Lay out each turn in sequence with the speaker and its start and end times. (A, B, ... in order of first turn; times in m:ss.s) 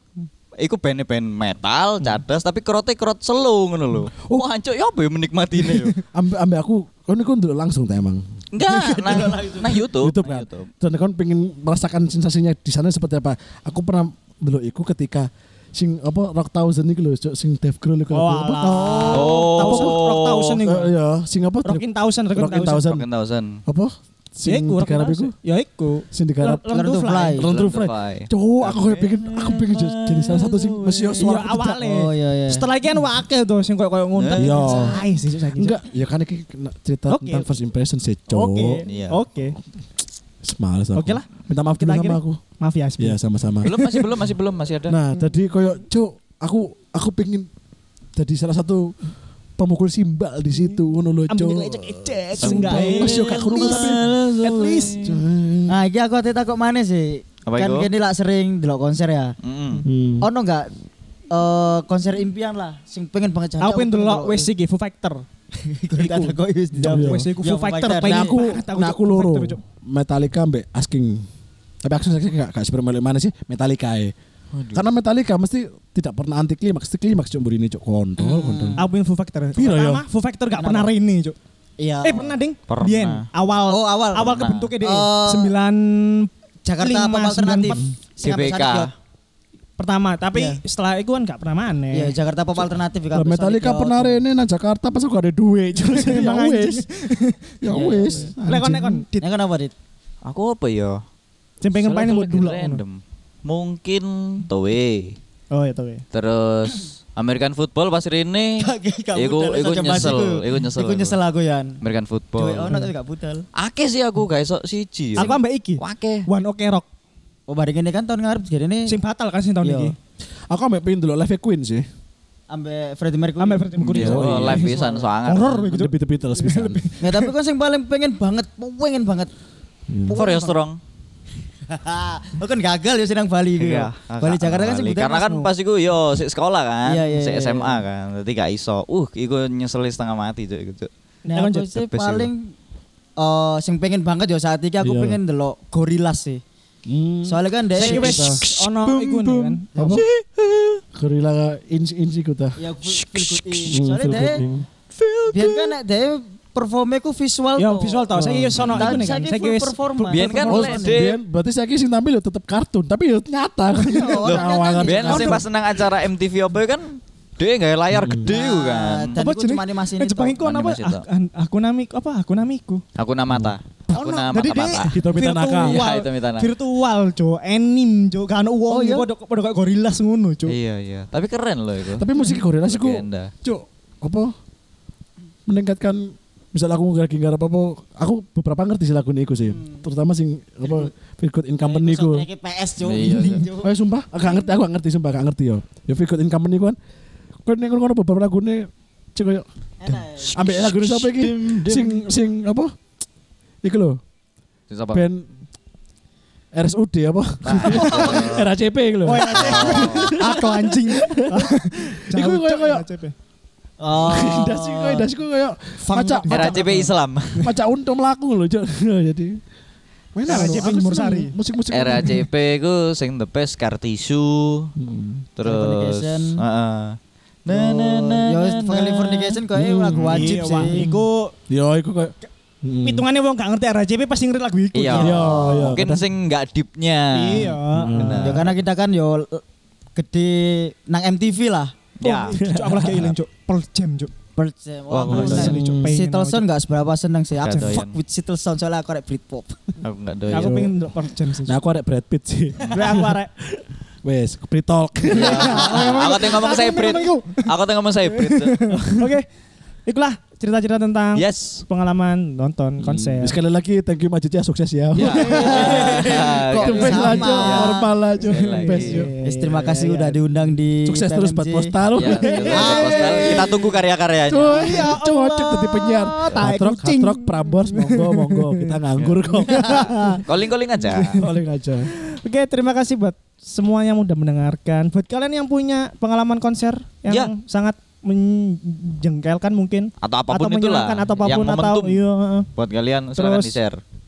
0:00.6-0:06.0 A
0:04.2-0:04.4 B
0:06.1-0:08.2 B
0:08.5-0:10.7 A
0:08.8-0:09.8 C
0:09.9-0:20.0 B
0:18.1-0:20.9 D
0:18.7-0:19.4 C
0:19.1-0:20.6 A
0:20.6-0:23.0 B
0:21.6-0:22.8 D
0:22.7-0:23.6 A
0:23.6-0:25.3 B
0:24.4-0:27.4 D
0:26.1-0:26.6 B
0:26.7-0:27.4 C
0:27.4-0:31.8 B
0:27.5-0:31.4 A
0:31.2-0:35.8 D
0:31.8-0:32.6 C
0:34.2-0:34.4 A
0:34.4-0:35.0 B
0:35.6-0:38.8 B
0:37.1-0:37.4 D
0:38.3-0:39.6 D
0:38.8-0:39.2 A
0:40.4-0:42.4 B
0:40.9-0:43.2 D
0:43.0-0:44.1 B
0:43.6-0:45.0 A
0:44.9-0:47.5 B
0:48.2-0:48.9 B
0:49.6-0:54.0 B
0:51.3-0:55.0 D
0:52.4-0:55.2 A
0:55.0-0:55.8 B
0:55.7-0:59.4 C
0:57.5-0:57.9 A
0:59.4-0:59.8 A
0:59.8-1:00.3 B
1:00.2-1:00.7 C
1:01.3-1:04.5 C
1:03.6-1:05.2 D
1:05.6-1:08.4 C
1:06.0-1:09.6 D
1:06.8-1:07.3 B
1:07.9-1:11.3 B
1:11.8-1:14.1 B
1:14.5-1:14.9 A
1:14.7-1:18.8 B
1:18.2-1:18.9 C
1:18.8-1:21.4 D
1:19.6-1:20.0 B
1:20.6-1:20.9 C
1:21.8-1:22.4 C
1:22.0-1:27.8 D
1:22.7-1:23.2 A
1:23.7-1:25.5 C
1:24.2-1:24.7 A
1:26.6-1:28.9 C
1:28.2-1:28.9 A
1:29.8-1:32.2 D
1:30.3-1:30.6 C
1:31.9-1:34.2 C
1:33.1-1:36.9 B
1:35.9-1:37.4 D
1:37.6-1:39.0 B
1:37.7-1:38.3 C
1:38.4-1:39.3 D
1:39.2-1:39.7 C
1:40.2-1:41.0 A
1:41.6-1:42.8 D
1:41.7-1:45.2 A
1:45.5-1:46.0 D
1:46.1-1:48.6 A
1:48.6-1:51.8 C
1:49.1-1:51.2 A
1:51.8-1:52.8 A
1:52.4-1:53.4 C
1:53.6-1:56.3 A
1:55.2-1:56.9 D
1:57.5-1:59.0 C
1:58.9-1:59.9 D
1:59.6-1:59.9 C
2:00.5-2:01.8 B
2:02.5-2:03.8 C
2:03.4-2:07.3 D
2:03.8-2:05.0 B
2:03.9-2:05.6 A
2:04.5-2:05.0 C
2:05.5-2:06.8 B
2:07.0-2:09.3 C
2:09.9-2:10.2 B
2:10.0-2:10.6 C
2:10.1-2:10.8 A
2:11.7-2:15.5 C
2:13.6-2:20.9 A
2:16.8-2:17.8 C
2:21.3-2:22.5 C
2:21.3-2:21.7 D
2:21.8-2:22.3 A
2:23.2-2:26.4 C
2:24.8-2:25.2 B
2:26.9-2:30.0 B
2:27.2-2:28.3 C
2:27.7-2:29.6 D
2:28.5-2:28.9 A
2:29.7-2:30.0 C
2:29.9-2:30.8 A
2:30.9-2:32.6 B
2:32.6-2:34.4 C
2:32.8-2:35.8 A
2:33.7-2:34.6 B
2:35.3-2:38.1 C
2:37.6-2:40.4 D
2:38.1-2:39.1 B
2:38.7-2:41.1 C
2:40.1-2:41.2 A
2:40.5-2:45.4 B
2:43.8-2:45.4 C
2:44.2-2:49.2 A
2:47.9-2:48.3 B
2:48.2-2:50.4 C
2:49.2-2:52.8 D
2:50.4-2:51.0 A
2:53.0-2:54.9 A
2:53.9-3:00.6 D
2:54.9-2:55.8 B
2:55.6-2:56.5 A
2:58.7-2:59.1 B
3:00.4-3:02.1 A
3:01.9-3:04.3 B
3:02.6-3:03.3 A
3:05.5-3:12.3 B
3:09.5-3:09.8 C
3:10.6-3:10.9 C
3:11.6-3:14.6 C
3:12.8-3:13.5 A
3:13.0-3:16.8 B
3:17.4-3:19.4 B
3:19.8-3:20.4 C
3:20.2-3:22.0 A
3:20.2-3:22.7 B
3:23.6-3:24.0 B
3:24.7-3:25.0 A
3:24.9-3:25.3 B
3:26.5-3:32.8 B
3:27.4-3:28.5 A
3:29.0-3:33.1 D
3:29.3-3:30.2 A
3:33.8-3:35.1 C
3:33.9-3:36.6 B
3:35.8-3:36.9 D
3:36.3-3:37.5 A
3:37.4-3:39.4 B
3:40.1-3:42.3 B
3:40.2-3:41.3 D
3:41.7-3:44.7 A
3:44.8-3:45.3 B
3:45.4-3:49.4 A
3:45.4-3:46.4 C
3:47.5-3:50.8 C
3:49.5-3:51.0 B
3:49.9-3:50.4 A
3:50.1-3:51.3 D
3:51.5-3:53.0 B
3:52.8-3:55.3 D
3:54.7-3:58.6 A
3:54.9-3:56.0 B
3:57.1-3:58.4 D
3:57.7-3:58.4 B
3:58.2-3:59.4 C
4:00.0-4:01.7 C
4:02.0-4:02.4 A
4:02.0-4:04.1 D
4:02.4-4:03.1 B
4:04.4-4:09.8 C
4:04.9-4:05.6 A
4:05.1-4:06.4 D
4:05.1-4:06.0 B
4:07.4-4:08.0 A
4:09.8-4:10.7 A
4:10.3-4:11.6 D
4:10.3-4:10.7 B
4:11.4-4:15.8 B
4:12.7-4:13.3 D
4:15.1-4:18.7 A
4:15.1-4:17.5 D
4:18.1-4:19.2 D
4:18.7-4:19.1 B
4:19.8-4:23.3 D
4:21.2-4:21.6 A
4:22.9-4:23.1 A
4:23.2-4:29.1 B
4:25.0-4:29.0 A
4:25.2-4:25.9 D
4:25.2-4:27.8 C
4:28.6-4:30.2 D
4:29.2-4:31.7 C
4:30.8-4:33.7 B
4:31.9-4:34.9 A
4:32.2-4:33.7 C
4:34.3-4:40.2 B
4:34.5-4:38.7 D
4:39.0-4:39.2 A
4:39.4-4:40.2 D
4:39.8-4:41.2 A
4:40.8-4:41.2 D
4:41.2-4:41.9 B
4:42.1-4:52.5 D
4:50.0-4:52.0 A
4:52.6-4:53.8 A
4:53.2-4:53.6 D